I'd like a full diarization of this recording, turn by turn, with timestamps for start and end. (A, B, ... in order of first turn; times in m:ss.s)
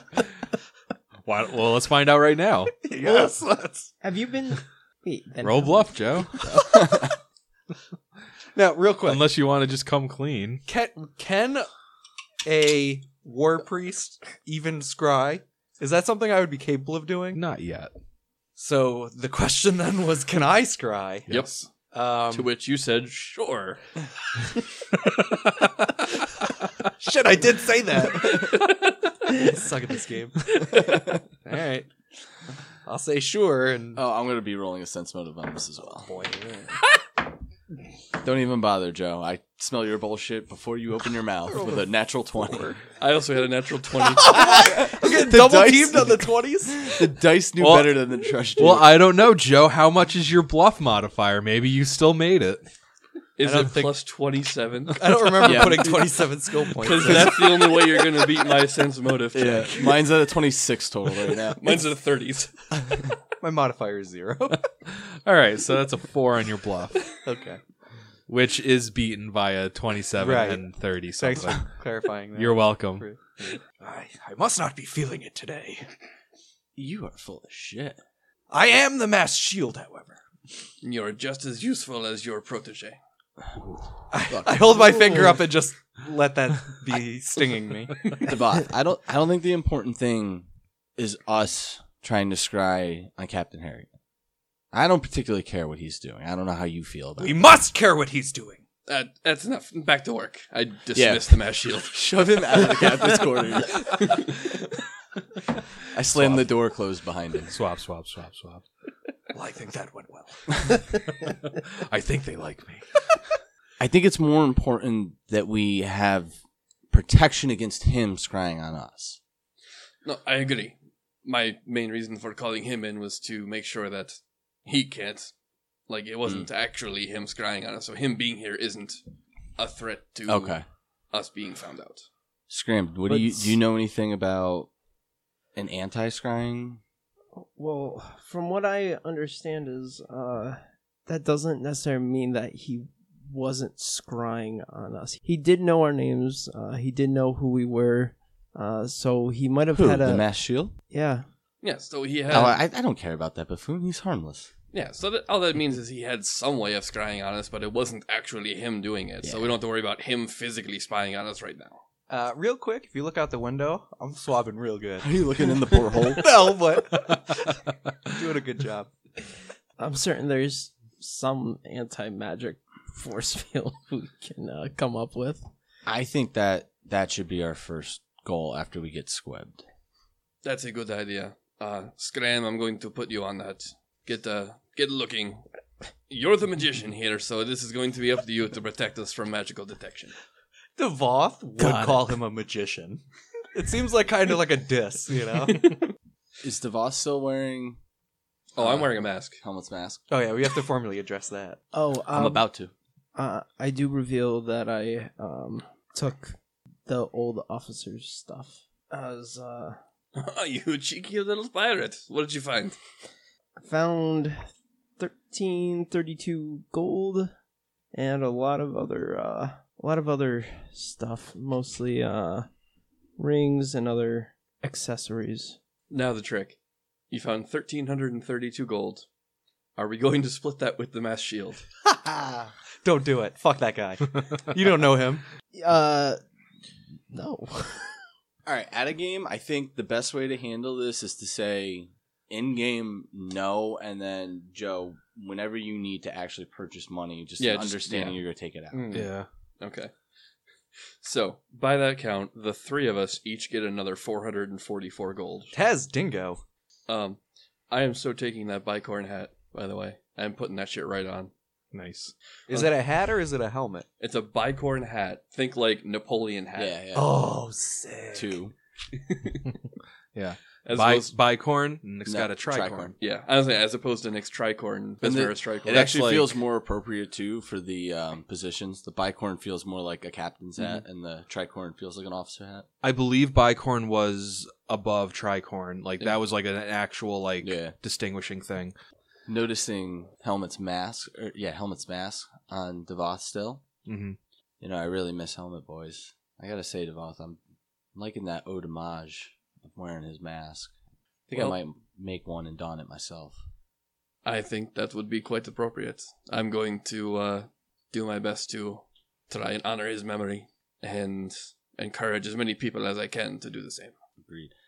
0:01.2-0:02.7 A
0:02.8-0:03.9 B
0:04.0-0:07.0 C
0:05.4-0:06.4 A
0:06.6-0:07.1 D
0:08.5-0:09.2 B
0:09.0-0:10.6 A
0:10.6-0:11.7 B
0:12.4-0:17.4 B
0:17.3-0:17.9 A
0:18.6-0:21.3 B
0:21.3-0:21.6 A
0:21.3-0:21.7 E
0:21.9-0:22.5 B
0:22.3-0:23.8 E
0:27.0-0:31.9 B
0:30.8-0:31.1 D
0:32.8-0:34.0 B
0:33.9-0:36.1 D
0:36.1-0:36.8 B
0:38.2-0:42.8 D
0:41.5-0:41.9 B
0:42.4-0:42.8 B
0:43.0-0:44.5 E
0:44.2-0:47.1 B
0:44.3-0:48.9 D
0:47.6-0:48.0 A
0:48.6-0:52.6 A
0:53.4-0:55.9 E
0:53.4-0:53.9 B
0:54.9-0:58.2 B
0:55.4-0:56.2 D
0:56.7-0:59.7 E
0:59.3-1:01.6 D
0:59.7-1:00.0 B
1:01.6-1:03.1 E
1:02.8-1:04.7 B
1:05.0-1:07.0 A
1:07.2-1:07.6 B
1:08.3-1:11.7 A
1:10.2-1:10.6 B
1:11.2-1:15.9 B
1:12.3-1:13.1 A
1:16.8-1:18.0 D
1:18.5-1:20.2 B
1:20.8-1:23.0 E
1:24.1-1:28.2 B
1:24.3-1:25.3 D
1:28.2-1:30.4 D
1:31.0-1:33.9 D
1:34.7-1:37.4 D
1:37.2-1:38.6 B
1:38.9-1:42.7 E
1:40.9-1:44.0 D
1:43.9-1:44.4 E
1:45.9-1:47.5 D
1:46.1-1:46.4 B
1:47.5-1:48.6 A
1:49.3-1:50.9 B
1:51.6-1:53.1 A
1:53.8-1:56.3 D
1:56.9-1:59.2 D
2:00.0-2:05.3 E
2:05.9-2:09.0 E
2:09.6-2:10.6 E
2:10.3-2:10.6 D
2:11.1-2:12.0 E
2:12.5-2:14.7 D
2:13.1-2:13.5 C
2:15.5-2:16.8 D
2:17.3-2:30.3 C
2:29.7-2:30.7 D
2:30.9-2:31.2 C
2:31.6-2:32.6 E
2:32.3-2:34.5 D
2:34.7-2:41.8 E
2:39.2-2:39.5 D
2:42.1-2:45.4 B
2:45.0-2:46.3 D
2:46.1-2:47.5 B
2:48.0-2:48.9 B
2:49.8-2:55.5 C
2:55.8-2:59.6 D
3:00.4-3:05.4 E
3:06.1-3:10.1 E
3:10.8-3:13.0 B
3:11.6-3:12.0 A
3:13.5-3:15.8 B
3:16.4-3:17.8 D
3:18.5-3:19.4 E
3:18.6-3:20.0 D
3:20.1-3:21.6 B
3:21.7-3:22.5 C
3:22.1-3:22.7 D
3:23.1-3:29.8 C
3:30.1-3:32.8 E
3:33.6-3:37.3 C
3:37.9-3:42.5 C
3:43.2-3:45.6 C
3:45.9-3:46.6 E
3:47.1-3:49.0 E
3:49.8-3:51.6 E
3:52.8-3:55.2 B
3:55.5-3:56.2 C
3:57.1-3:58.0 C
3:58.4-4:09.0 D
4:07.4-4:08.2 E
4:08.7-4:09.1 E
4:08.9-4:09.3 A
4:09.6-4:09.9 E
4:11.0-4:15.5 E
4:15.5-4:16.4 B
4:16.9-4:17.2 E
4:17.7-4:21.3 E
4:21.7-4:22.1 A
4:22.5-4:23.9 B
4:24.0-4:26.8 E
4:26.5-4:27.2 D
4:26.9-4:28.4 B
4:28.1-4:28.5 D
4:29.0-4:29.5 E
4:30.1-4:32.9 A
4:30.6-4:31.1 E
4:32.1-4:32.9 D
4:33.0-4:35.9 E
4:35.0-4:42.7 D
4:35.6-4:36.4 A
4:42.8-4:48.7 A
4:47.4-4:47.7 D
4:49.3-4:53.6 D
4:53.8-4:54.2 A
4:54.6-4:57.4 D
4:57.9-5:00.7 D
5:01.3-5:03.4 D
5:04.2-5:13.9 E
5:14.2-5:14.5 D